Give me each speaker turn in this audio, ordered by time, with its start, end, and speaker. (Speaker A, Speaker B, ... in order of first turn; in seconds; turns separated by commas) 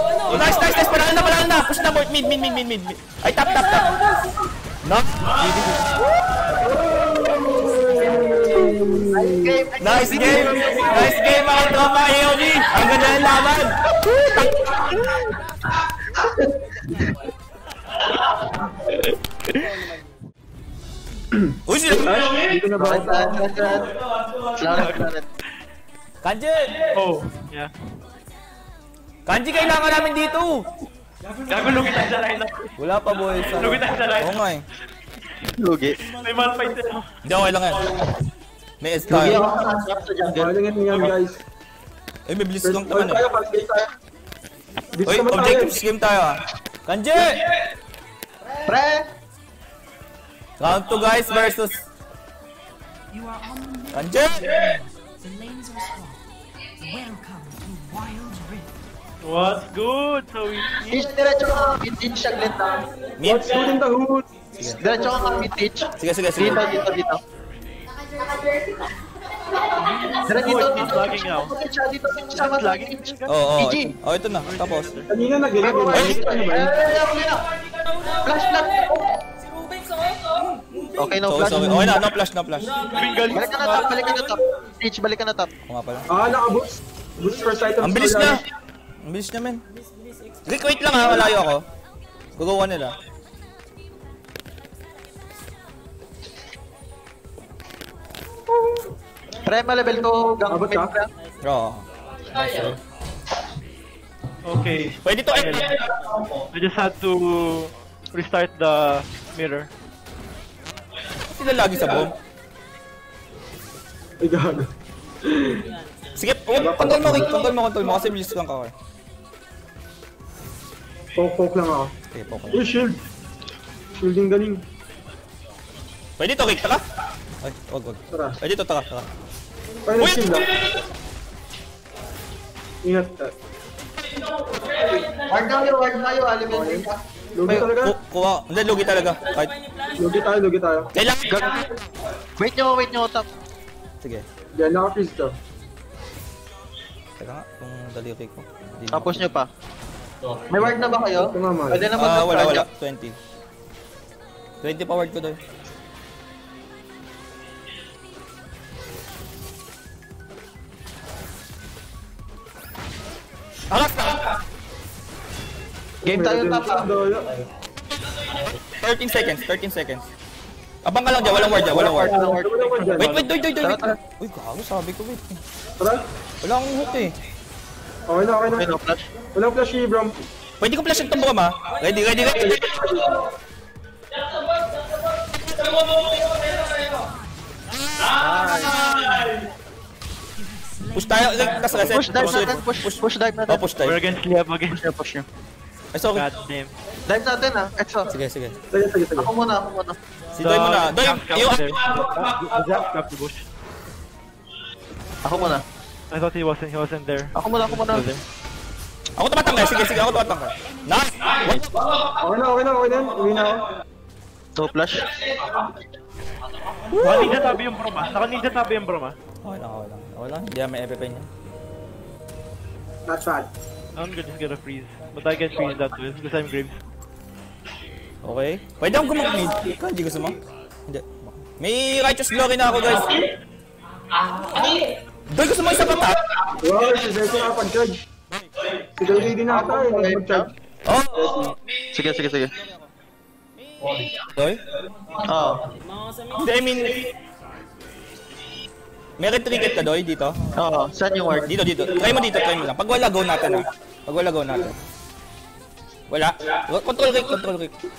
Speaker A: 0.2-4.1, Speaker A: 4.8-6.5, Speaker B: 6.6-10.9, Speaker C: 9.1-11.1, Speaker A: 9.8-15.0, Speaker B: 21.3-23.4, Speaker A: 21.7-22.2, Speaker C: 22.8-23.9, Speaker C: 24.6-25.2, Speaker D: 24.7-25.0, Speaker A: 26.2-26.8, Speaker D: 26.9-27.7, Speaker A: 29.2-30.6, Speaker D: 31.5-32.7, Speaker A: 32.8-34.6, Speaker D: 33.5-34.4, Speaker C: 35.6-36.0, Speaker D: 36.1-37.0, Speaker A: 37.2-37.9, Speaker A: 38.8-39.5, Speaker C: 39.1-40.5, Speaker B: 40.3-41.4, Speaker A: 42.3-43.2, Speaker B: 42.6-43.9, Speaker B: 44.9-45.8, Speaker A: 45.0-47.4, Speaker C: 48.7-49.1, Speaker A: 50.6-51.8, Speaker A: 53.9-54.7, Speaker D: 59.2-61.0, Speaker C: 60.9-62.9, Speaker A: 63.2-63.5, Speaker B: 63.2-64.2, Speaker C: 64.8-67.2, Speaker A: 66.0-66.7, Speaker D: 70.3-71.5, Speaker C: 70.3-73.9, Speaker D: 72.3-73.3, Speaker A: 73.3-75.0, Speaker D: 74.4-75.1, Speaker B: 75.1-76.7, Speaker C: 75.6-77.5, Speaker A: 75.9-76.2, Speaker C: 78.2-79.2, Speaker C: 80.9-82.0, Speaker A: 81.2-82.8, Speaker D: 82.8-83.9, Speaker C: 83.3-85.5, Speaker A: 85.7-86.1, Speaker B: 86.1-88.4, Speaker A: 87.8-88.4, Speaker A: 89.0-89.6, Speaker A: 90.5-91.6, Speaker A: 92.4-93.0, Speaker C: 99.5-101.1, Speaker B: 100.5-100.9, Speaker A: 101.4-101.8, Speaker E: 102.3-102.7, Speaker D: 104.4-105.8, Speaker A: 105.0-105.8, Speaker D: 106.5-109.7, Speaker A: 111.3-112.1, Speaker B: 114.2-114.7, Speaker B: 115.2-115.7, Speaker A: 116.2-118.7, Speaker B: 116.5-117.3, Speaker B: 121.2-121.9, Speaker A: 122.1-122.6, Speaker B: 122.5-123.0, Speaker B: 123.9-124.6, Speaker A: 126.2-126.8, Speaker A: 127.4-129.1, Speaker B: 128.1-128.4, Speaker B: 129.9-130.5, Speaker A: 130.0-130.4, Speaker B: 132.8-133.3, Speaker C: 135.1-137.7, Speaker B: 136.5-137.9, Speaker A: 137.5-139.6, Speaker B: 139.9-140.9, Speaker A: 140.9-141.4, Speaker C: 141.3-141.6, Speaker C: 142.4-143.3, Speaker B: 144.6-145.3, Speaker A: 147.2-149.3, Speaker C: 148.9-149.5, Speaker E: 150.2-151.0, Speaker C: 150.5-152.7, Speaker B: 151.2-151.8, Speaker A: 152.0-153.2, Speaker A: 154.6-155.4, Speaker A: 163.7-164.2, Speaker C: 166.0-166.9, Speaker B: 166.0-167.3, Speaker A: 168.8-170.1, Speaker A: 170.8-172.1, Speaker C: 171.3-174.0, Speaker B: 171.8-173.3, Speaker A: 173.0-175.4, Speaker A: 176.4-177.1, Speaker B: 178.1-178.7, Speaker C: 178.6-179.1, Speaker B: 179.3-180.1, Speaker A: 180.6-182.7, Speaker B: 182.3-183.1, Speaker A: 188.2-189.3, Speaker A: 190.9-194.0, Speaker C: 191.7-193.7, Speaker D: 191.8-192.6, Speaker D: 193.8-194.8, Speaker C: 194.7-195.2, Speaker A: 195.9-196.2, Speaker D: 196.1-196.7, Speaker C: 197.1-198.1, Speaker A: 198.1-198.5, Speaker B: 198.7-199.3, Speaker C: 199.2-199.9, Speaker A: 200.3-201.8, Speaker D: 200.4-203.4, Speaker C: 205.2-205.6, Speaker D: 206.1-208.2, Speaker C: 207.3-208.1, Speaker A: 209.2-211.7, Speaker B: 212.2-213.6, Speaker C: 214.6-215.1, Speaker E: 216.4-217.0, Speaker A: 216.9-217.3, Speaker D: 217.0-219.1, Speaker A: 219.4-221.3, Speaker B: 223.1-223.5, Speaker D: 223.9-226.8, Speaker A: 228.2-233.2, Speaker E: 234.1-234.9, Speaker A: 235.3-236.2, Speaker B: 236.6-238.0, Speaker B: 239.0-240.5, Speaker C: 239.4-240.4, Speaker A: 240.8-241.5, Speaker B: 241.1-241.5, Speaker C: 241.9-242.5, Speaker E: 243.8-244.3, Speaker A: 244.3-244.6, Speaker E: 245.2-246.2, Speaker C: 245.3-245.6, Speaker A: 246.3-247.0, Speaker A: 249.2-250.4, Speaker C: 250.6-251.5, Speaker A: 251.5-254.8, Speaker A: 256.1-257.7